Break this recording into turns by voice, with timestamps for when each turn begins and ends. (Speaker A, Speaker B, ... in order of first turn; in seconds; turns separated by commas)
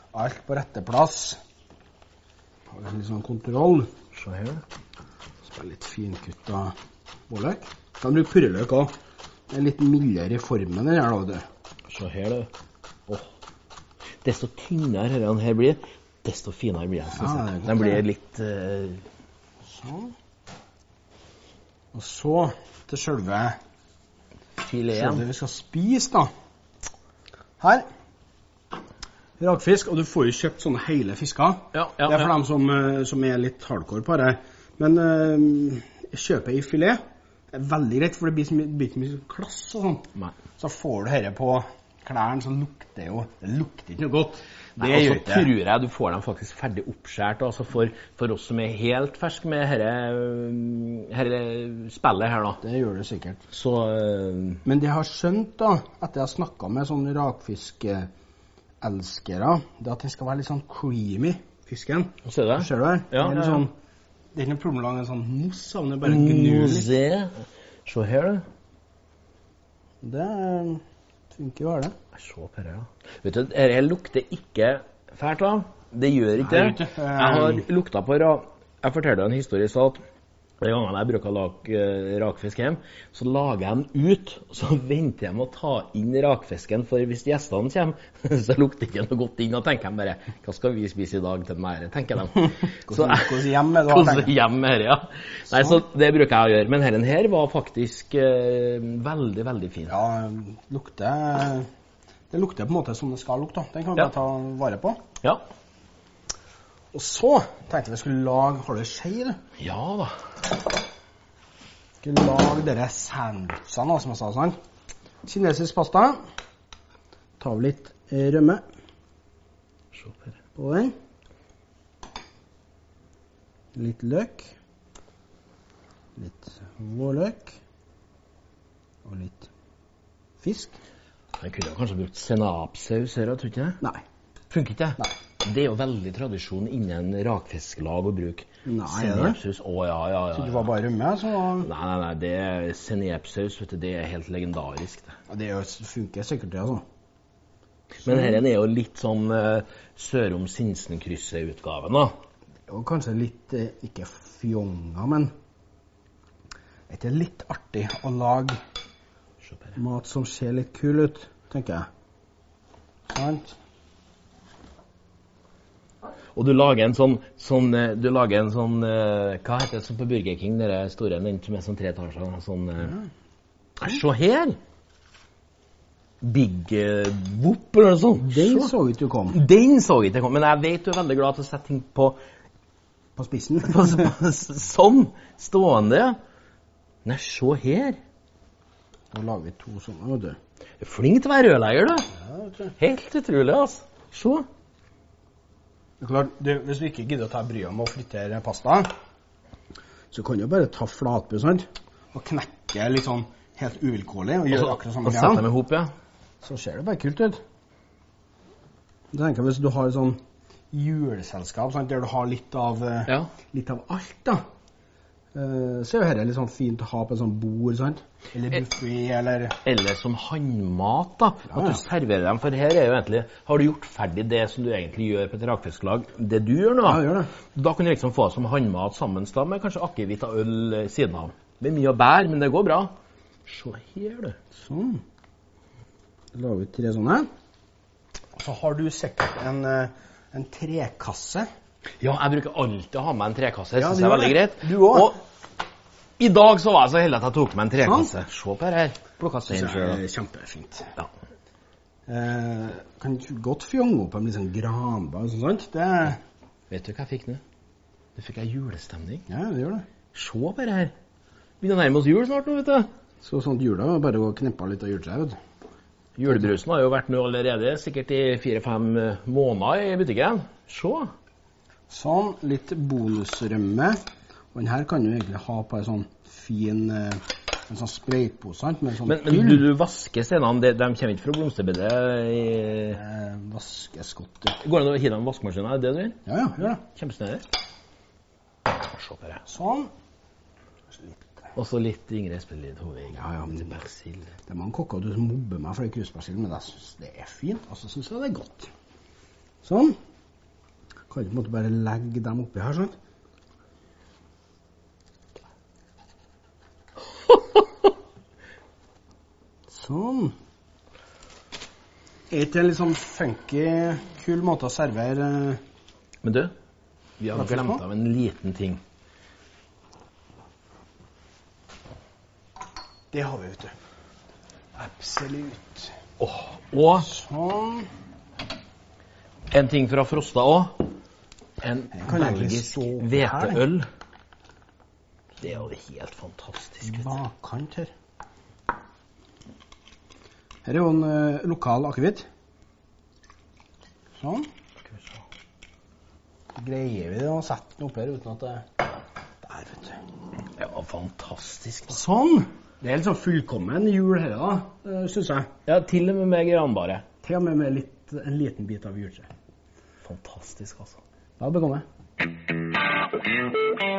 Speaker A: 0.1-1.4, Speaker A: 2.7-3.9, Speaker B: 4.1-4.6, Speaker A: 5.4-6.7, Speaker A: 7.3-8.9, Speaker A: 9.5-11.4, Speaker B: 11.9-12.5, Speaker B: 14.2-19.0, Speaker A: 17.1-18.0, Speaker A: 19.6-20.1, Speaker A: 21.9-23.6, Speaker B: 24.6-25.2, Speaker A: 24.9-26.3, Speaker A: 27.6-27.8, Speaker A: 29.4-37.0, Speaker B: 31.7-32.3, Speaker A: 37.5-45.5, Speaker B: 44.8-52.6, Speaker A: 52.6-53.4, Speaker B: 53.5-54.6, Speaker A: 54.6-58.1, Speaker A: 58.8-63.7, Speaker B: 62.2-63.6, Speaker A: 64.3-66.9, Speaker B: 66.0-68.4, Speaker A: 70.0-70.8, Speaker A: 71.3-71.9, Speaker B: 72.1-80.0, Speaker A: 76.4-77.7, Speaker B: 80.6-99.9, Speaker A: 92.9-94.3, Speaker A: 95.5-95.8, Speaker A: 99.9-101.7, Speaker A: 102.3-105.0, Speaker A: 106.9-109.4, Speaker B: 109.6-110.1, Speaker A: 112.0-114.5, Speaker A: 115.2-116.2, Speaker A: 117.4-118.6, Speaker B: 119.9-120.3, Speaker A: 120.5-120.9, Speaker A: 123.7-124.5, Speaker A: 126.2-127.6, Speaker A: 129.0-129.5, Speaker A: 130.4-130.8, Speaker B: 131.4-133.8, Speaker B: 134.5-140.7, Speaker A: 138.6-139.4, Speaker A: 140.3-141.7, Speaker B: 141.6-145.1, Speaker A: 145.3-146.8, Speaker B: 148.0-152.1, Speaker A: 148.0-148.4, Speaker A: 152.7-155.3, Speaker A: 156.9-158.6, Speaker B: 159.4-159.8, Speaker A: 159.8-161.8, Speaker A: 163.1-163.6, Speaker B: 166.3-172.9, Speaker B: 173.8-174.6, Speaker B: 176.2-178.7, Speaker A: 178.2-179.4, Speaker B: 179.3-182.2, Speaker A: 183.2-184.1, Speaker B: 183.6-186.2, Speaker B: 187.0-188.0, Speaker A: 189.1-190.3, Speaker B: 190.8-192.1, Speaker A: 192.1-192.7, Speaker B: 192.8-194.4, Speaker A: 196.0-198.9, Speaker A: 200.1-205.4, Speaker B: 204.5-205.9, Speaker A: 206.4-207.4, Speaker A: 209.1-210.2, Speaker A: 210.7-214.4, Speaker A: 215.3-219.6, Speaker B: 219.6-232.9, Speaker A: 221.5-221.8, Speaker A: 226.8-227.3, Speaker B: 233.4-234.3, Speaker A: 234.5-235.0, Speaker A: 236.3-237.3, Speaker A: 238.3-241.4, Speaker B: 242.0-245.2, Speaker A: 243.8-245.1, Speaker B: 246.2-250.0, Speaker A: 247.8-248.1, Speaker A: 249.5-250.9, Speaker A: 252.1-256.2, Speaker B: 256.7-257.4, Speaker B: 258.1-259.2, Speaker A: 259.3-259.8, Speaker B: 260.1-260.9, Speaker B: 261.6-262.9, Speaker A: 263.2-265.4, Speaker B: 266.2-271.1, Speaker A: 271.9-274.0, Speaker A: 274.5-279.7, Speaker B: 279.1-283.0, Speaker A: 282.9-284.6, Speaker B: 284.6-286.2, Speaker A: 286.2-286.8, Speaker B: 286.7-287.4, Speaker B: 288.7-289.4, Speaker A: 289.5-289.9, Speaker A: 290.9-291.5, Speaker B: 291.6-294.3, Speaker A: 293.1-293.8, Speaker A: 294.4-298.7, Speaker A: 299.6-299.9, Speaker A: 301.1-302.9, Speaker A: 309.7-310.3, Speaker A: 312.3-315.6, Speaker B: 316.2-316.5, Speaker B: 317.2-318.8, Speaker A: 317.3-317.8, Speaker A: 323.1-323.7, Speaker A: 324.8-325.9, Speaker B: 326.2-327.1, Speaker A: 327.0-327.9, Speaker B: 329.5-330.8, Speaker B: 331.6-333.9, Speaker A: 331.9-333.6, Speaker B: 335.4-337.1, Speaker A: 336.8-337.9, Speaker A: 340.6-342.2, Speaker A: 344.2-344.5, Speaker B: 344.9-345.2, Speaker A: 346.5-348.6, Speaker A: 349.4-350.0, Speaker B: 350.6-352.0, Speaker A: 351.9-355.5, Speaker B: 355.7-357.0, Speaker A: 357.2-359.3, Speaker B: 360.0-361.0, Speaker A: 361.4-361.8